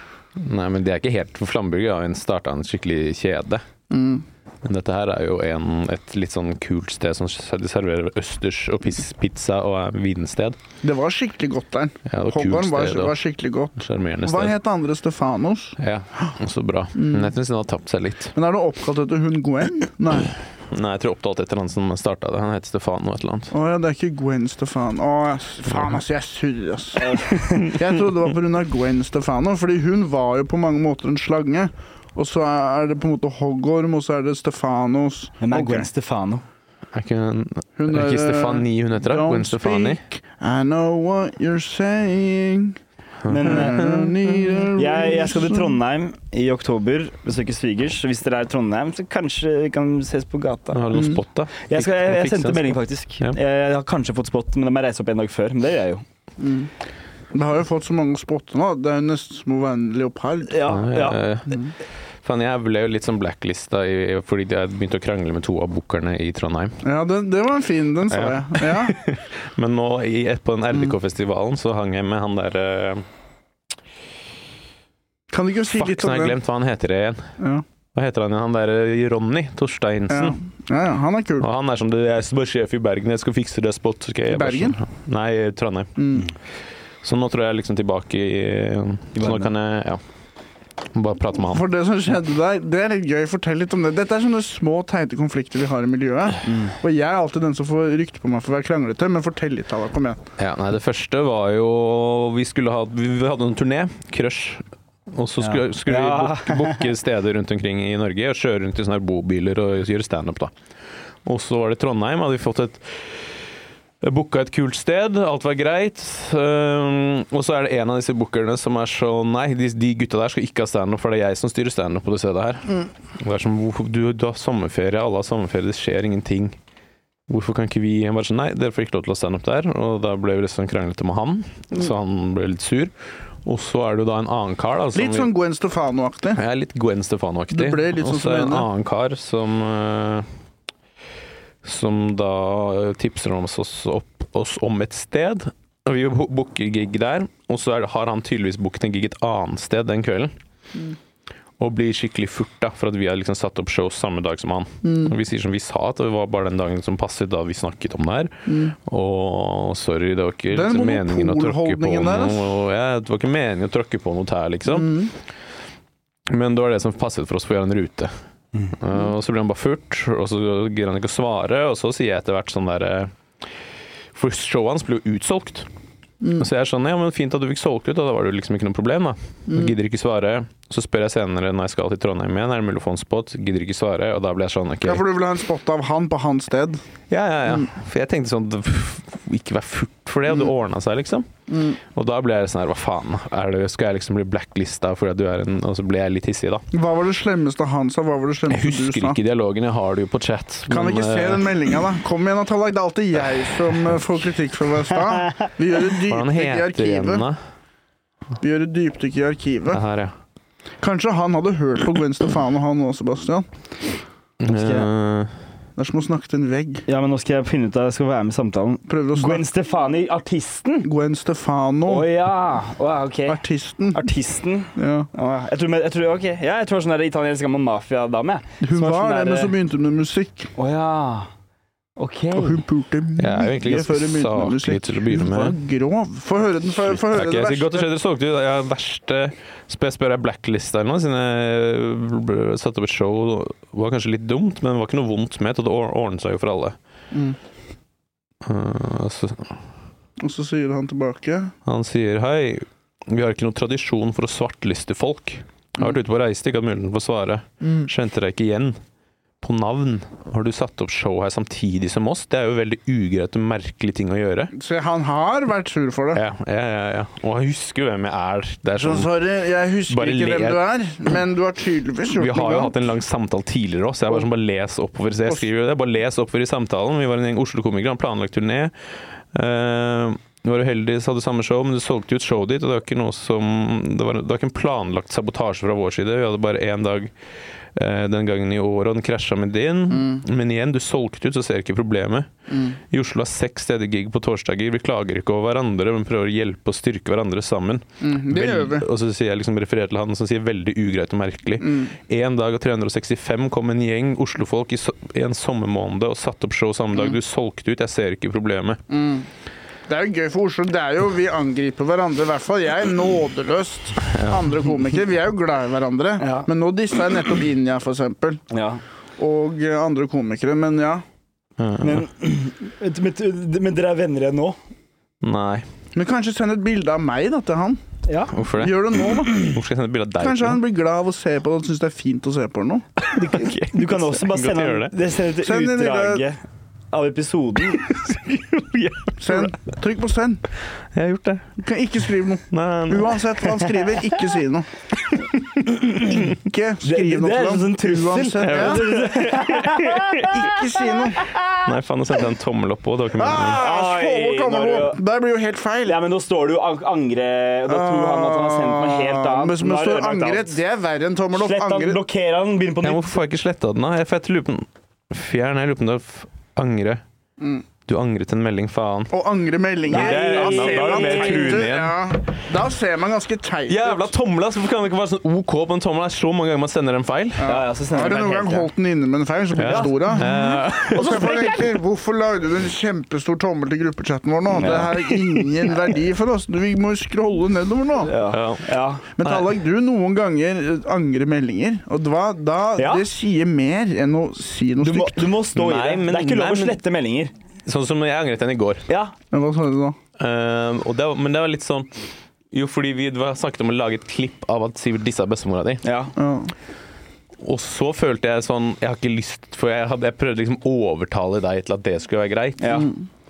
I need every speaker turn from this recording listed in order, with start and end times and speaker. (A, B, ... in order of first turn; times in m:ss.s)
0:00.4-0:03.6 A
0:03.9-0:04.2 B
0:04.6-0:10.6 A
0:10.8-0:16.3 B
0:12.1-0:13.2 A
0:13.8-0:14.5 A
0:15.8-0:18.3 A
0:16.9-0:17.3 B
0:18.3-0:20.3 B
0:20.7-0:23.5 A
0:23.5-0:35.9 B
0:27.0-0:27.7 C
0:35.4-0:36.4 C
0:36.9-0:40.0 A
0:37.8-0:42.8 B
0:43.2-0:44.1 A
0:43.3-0:43.9 C
0:43.4-0:45.8 B
0:44.7-0:51.1 C
0:50.7-0:53.4 A
0:51.7-0:56.0 C
0:56.4-0:56.7 B
0:57.3-1:00.6 B
1:00.5-1:01.2 C
1:00.7-1:01.6 A
1:02.2-1:06.8 A
1:06.8-1:09.0 B
1:08.1-1:13.0 A
1:15.3-1:16.4 B
1:15.7-1:17.3 A
1:17.4-1:17.6 B
1:17.9-1:20.4 A
1:20.1-1:21.5 B
1:21.4-1:26.0 A
1:24.3-1:24.8 B
1:26.0-1:26.3 B
1:27.0-1:30.0 A
1:29.2-1:29.5 C
1:30.9-1:31.6 A
1:31.5-1:40.2 B
1:36.4-1:36.7 C
1:40.4-1:50.5 A
1:45.4-1:46.9 C
1:51.2-1:53.4 A
1:54.0-2:06.6 A
2:07.3-2:12.9 A
2:13.4-2:15.3 A
2:14.9-2:16.4 B
2:16.3-2:20.2 A
2:17.5-2:18.6 B
2:21.6-2:30.3 A
2:31.6-2:45.0 A
2:34.8-2:35.1 B
2:38.5-2:38.7 B
2:40.5-2:42.5 B
2:44.7-2:45.1 B
2:46.3-2:48.1 A
2:48.7-2:53.5 A
2:54.1-2:55.7 A
2:56.4-3:05.0 A
2:59.5-2:59.7 B
3:04.8-3:06.8 B
3:07.1-3:11.3 A
3:11.5-3:11.8 B
3:11.8-3:16.6 A
3:16.7-3:19.2 B
3:18.5-3:21.7 A
3:20.7-3:27.2 B
3:26.0-3:27.4 A
3:28.4-3:29.8 B
3:29.7-3:30.1 A
3:30.8-3:33.4 B
3:34.4-3:35.3 A
3:34.5-3:34.9 C
3:35.8-3:36.8 B
3:36.9-3:40.9 C
3:38.9-3:39.4 B
3:40.8-3:42.1 B
3:41.8-3:43.4 C
3:43.3-3:44.1 B
3:43.9-3:49.5 C
3:44.7-3:45.1 B
3:48.6-3:50.5 B
3:50.6-3:51.3 C
3:52.0-3:52.6 C
3:52.4-3:57.9 B
3:53.2-3:55.6 A
3:56.8-4:06.8 A
4:07.1-4:07.4 B
4:08.4-4:09.6 A
4:10.2-4:11.5 B
4:11.6-4:18.8 A
4:17.6-4:17.9 B
4:19.4-4:24.5 A
4:24.5-4:26.2 B
4:26.1-4:29.1 A
4:28.8-4:32.7 B
4:29.9-4:30.6 A
4:32.1-4:47.1 A
4:47.7-4:52.3 A
4:49.9-4:50.2 B
4:52.5-4:52.8 B
4:52.9-5:08.8 A
4:58.0-4:58.8 B
5:01.6-5:01.9 B
5:08.9-5:09.3 B
5:09.9-5:18.4 B
5:14.0-5:14.5 A
5:16.2-5:16.5 C
5:18.5-5:18.8 C
5:19.2-5:21.0 B
5:21.6-5:22.0 A
5:21.8-5:24.6 C
5:25.2-5:25.6 A
5:25.9-5:27.8 B
5:28.0-5:28.3 C
5:28.3-5:30.6 A
5:28.4-5:29.5 B
5:30.2-5:32.8 B
5:33.0-5:34.9 A
5:33.1-5:36.4 C
5:35.4-5:36.2 B
5:36.9-5:37.9 C
5:37.8-5:39.5 A
5:39.2-5:40.4 B
5:40.9-5:41.5 A
5:41.6-5:44.7 B
5:42.5-5:43.3 A
5:46.2-5:48.9 B
5:46.8-5:50.5 C
5:48.4-5:50.3 A
5:50.3-5:51.3 B
5:51.6-5:53.6 A
5:53.2-5:56.0 B
5:53.6-5:55.0 C
5:55.8-6:00.6 C
5:57.7-6:02.0 B
6:01.3-6:03.1 C
6:02.8-6:07.0 A
6:07.9-6:09.1 A
6:09.1-6:14.1 B
6:09.9-6:11.7 C
6:09.9-6:12.0 A
6:13.7-6:17.4 A
6:17.4-6:28.1 B
6:17.4-6:18.7 C
6:19.5-6:21.2 A
6:19.6-6:21.7 C
6:24.5-6:25.7 C
6:28.0-6:29.1 C
6:28.3-6:28.6 A
6:29.2-6:35.3 B
6:32.8-6:33.0 C
6:34.8-6:37.3 C
6:35.5-6:36.8 A
6:37.6-6:38.8 A
6:38.9-6:39.1 C
6:39.3-6:40.0 B
6:40.2-6:45.8 A
6:45.8-6:46.1 C
6:46.2-6:46.5 B
6:47.4-6:52.8 A
6:52.6-6:52.9 C
6:52.7-6:53.0 B